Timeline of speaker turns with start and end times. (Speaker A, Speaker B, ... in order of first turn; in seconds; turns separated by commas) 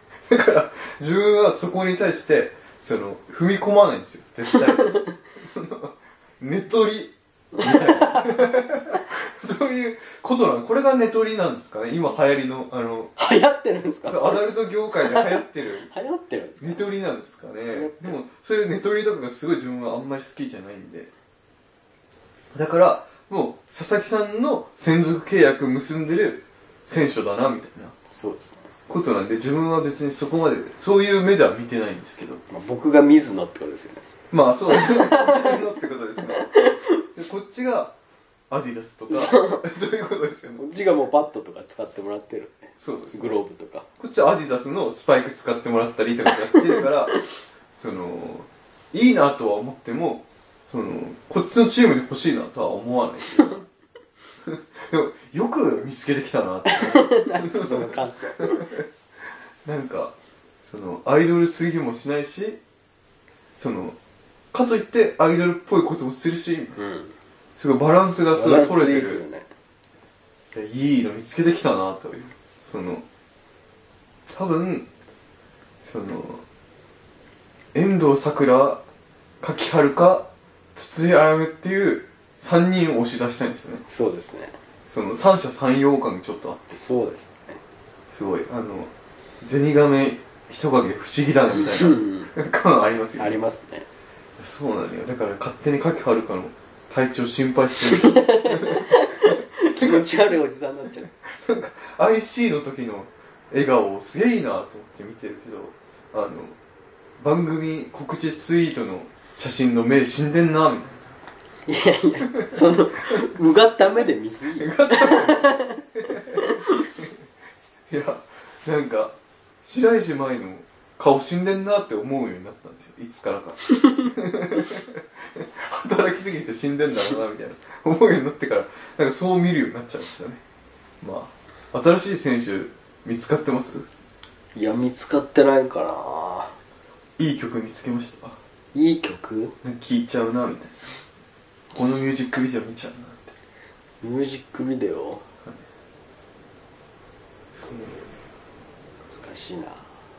Speaker A: 0.3-13.1, Speaker B: 7.7-8.2, Speaker B: 13.2-16.9, Speaker A: 14.1-15.9, Speaker A: 16.6-21.1, Speaker B: 17.7-18.2, Speaker A: 22.5-27.9, Speaker B: 28.1-28.7, Speaker A: 28.9-32.4, Speaker B: 32.5-34.0, Speaker A: 34.3-38.0, Speaker B: 34.7-35.6, Speaker B: 36.2-36.9, Speaker A: 38.5-40.6, Speaker B: 39.1-39.7, Speaker B: 40.6-43.9, Speaker A: 42.8-43.4, Speaker A: 44.0-47.2, Speaker A: 47.7-53.6, Speaker A: 54.4-58.8, Speaker B: 56.7-58.7, Speaker A: 59.6-62.6, Speaker A: 63.5-64.0, Speaker A: 64.5-66.8, Speaker B: 66.8-67.1, Speaker A: 67.5-69.2, Speaker B: 68.3-69.5, Speaker A: 70.5-73.0, Speaker A: 74.3-74.9, Speaker A: 75.8-76.4, Speaker A: 77.7-78.8, Speaker A: 79.4-83.8, Speaker B: 83.9-84.6, Speaker A: 84.9-86.8, Speaker B: 86.7-87.6, Speaker A: 88.1-93.4, Speaker B: 91.7-92.3, Speaker B: 93.2-93.9, Speaker A: 94.4-100.3, Speaker B: 97.9-101.1, Speaker A: 101.4-106.5, Speaker A: 107.2-111.2, Speaker B: 111.7-115.8, Speaker A: 114.5-116.9, Speaker A: 117.9-130.4, Speaker A: 131.0-133.9, Speaker B: 134.5-136.5, Speaker A: 137.2-138.4, Speaker B: 138.7-139.5, Speaker A: 139.6-141.0, Speaker A: 141.7-143.3, Speaker B: 144.0-145.2, Speaker A: 147.5-148.0, Speaker B: 149.1-149.9